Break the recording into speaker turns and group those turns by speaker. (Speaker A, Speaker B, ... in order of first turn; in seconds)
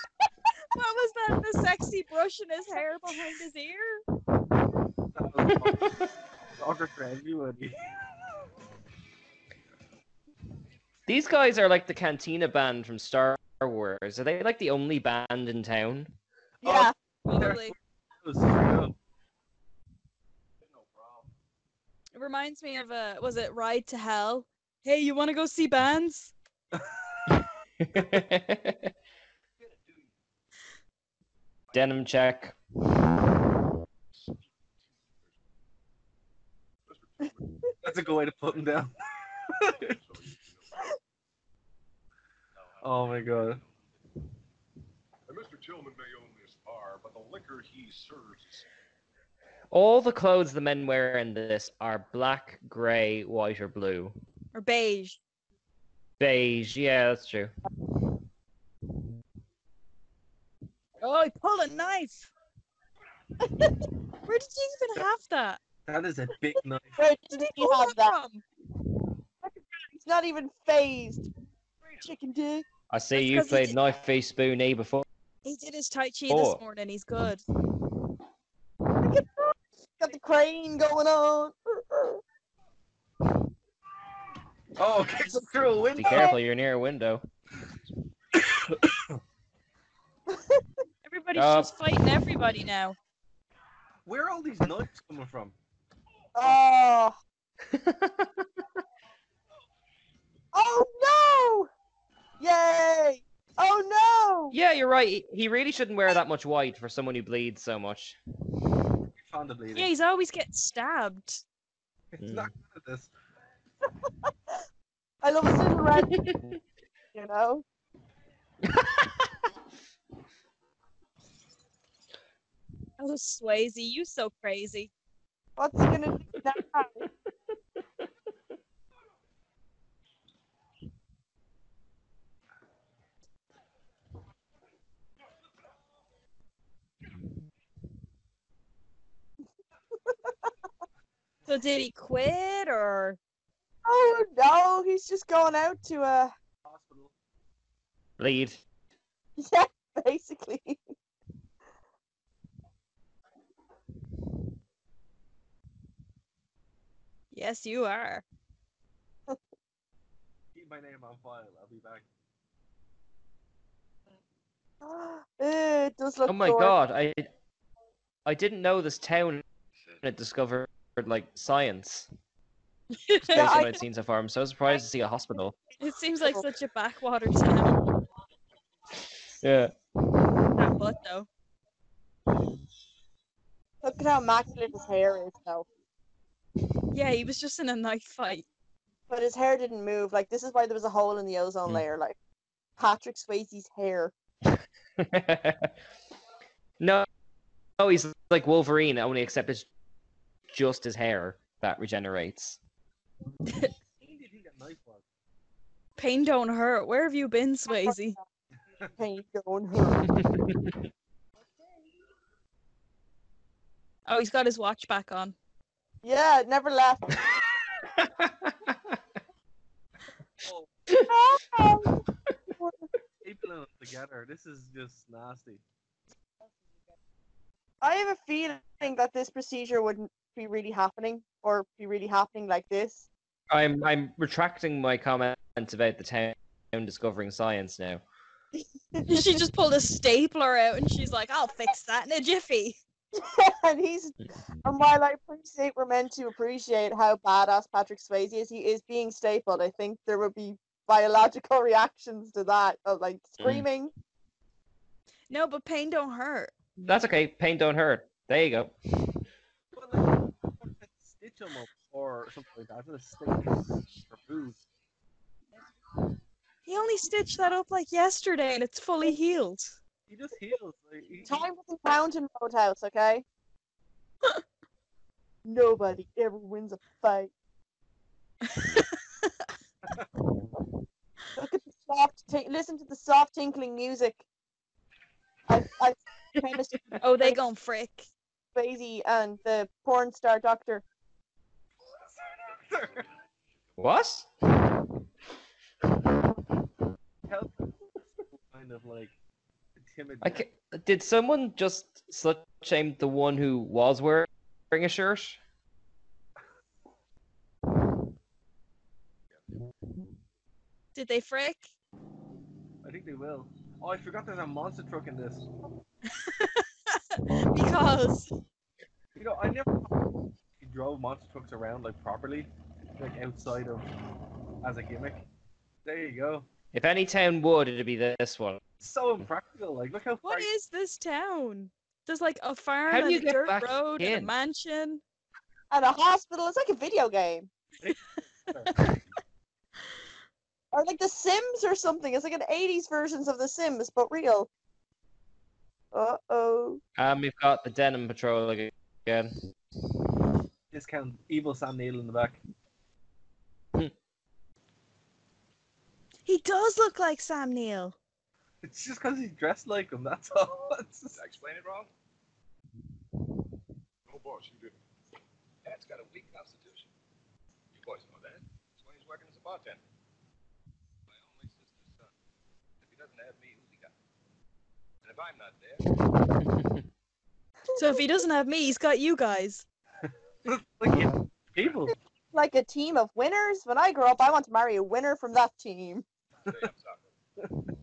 Speaker A: 0.7-4.0, 17.2-17.7, 22.1-26.3, 54.5-55.2, 61.0-62.3, 64.2-65.6, 67.3-68.4, 73.1-73.8, 75.4-77.4, 91.0-93.0, 109.7-111.4, 123.0-124.9, 141.5-143.2, 157.3-158.2, 173.0-173.6, 175.8-177.8, 180.6-181.3, 186.9-188.4, 206.0-208.2, 214.1-215.3, 239.1-242.8, 255.3-256.5, 266.6-269.8, 278.5-279.3, 287.0-288.1, 310.9-311.7, 316.1-318.3, 330.2-335.0, 356.2-357.9, 377.8-379.6
Speaker B: 5.1-5.9, 6.6-7.9, 16.6-18.9, 37.8-38.9, 39.5-40.0, 42.8-43.6, 65.9-67.0, 84.8-86.3, 88.5-89.1, 94.0-95.5, 109.2-109.9, 112.1-113.1, 146.6-147.1, 160.5-162.0, 204.0-205.0, 223.2-225.6, 259.7-264.6, 270.1-271.4, 292.2-293.1, 297.3-297.7, 298.5-299.1, 299.8-300.4, 312.8-315.5, 319.1-319.9, 320.6-323.9, 324.6-325.2, 325.8-326.4, 328.8-330.5, 337.8-338.8, 350.7-352.4, 358.6-361.2, 380.4-381.9
Speaker C: 11.1-16.1, 27.8-28.9, 31.7-32.5, 49.7-54.1, 56.2-57.5, 72.9-75.0, 76.3-76.6, 86.0-87.2, 91.3-91.7, 97.7-98.6, 104.5-108.2, 112.2-112.5, 116.0-116.6, 118.8-119.1, 148.2-148.6, 166.3-167.3, 168.2-169.4, 170.0-172.1, 173.3-175.6, 179.4-179.7, 195.0-195.7, 196.8-197.1, 197.8-199.7, 200.5-202.6, 210.0-210.8, 217.8-218.7, 233.5-238.0, 256.8-258.7, 293.8-294.3, 300.2-305.4, 326.7-328.6, 332.9-334.3, 347.0-349.3, 376.4-376.8
Speaker D: 16.6-16.9, 63.4-63.8, 67.0-68.2, 69.4-71.2, 72.0-72.7, 79.0-82.2, 86.0-86.4, 90.3-90.6, 96.3-97.2, 100.5-101.7, 102.4-104.5, 115.2-116.2, 117.1-117.6, 125.6-127.0, 143.8-146.3, 149.4-150.8, 164.8-166.7, 173.3-173.8, 183.8-185.7, 189.1-192.2, 192.8-194.1, 207.7-208.1, 209.0-210.0, 216.0-217.2, 221.0-222.8, 227.8-233.1, 238.6-239.2, 243.1-253.9, 271.2-273.2, 275.4-277.3, 281.4-284.2, 285.5-287.4, 288.5-290.8, 335.7-337.5, 340.7-344.5, 345.9-346.8, 382.3-386.0
Speaker E: 20.6-21.3, 29.6-30.1, 34.2-34.4, 36.9-37.4, 39.9-40.8, 42.6-43.7, 45.3-48.6, 361.1-361.9, 364.1-364.8, 365.6-366.9, 367.7-369.8, 371.1-372.1, 372.8-373.9, 375.0-375.8, 386.4-387.1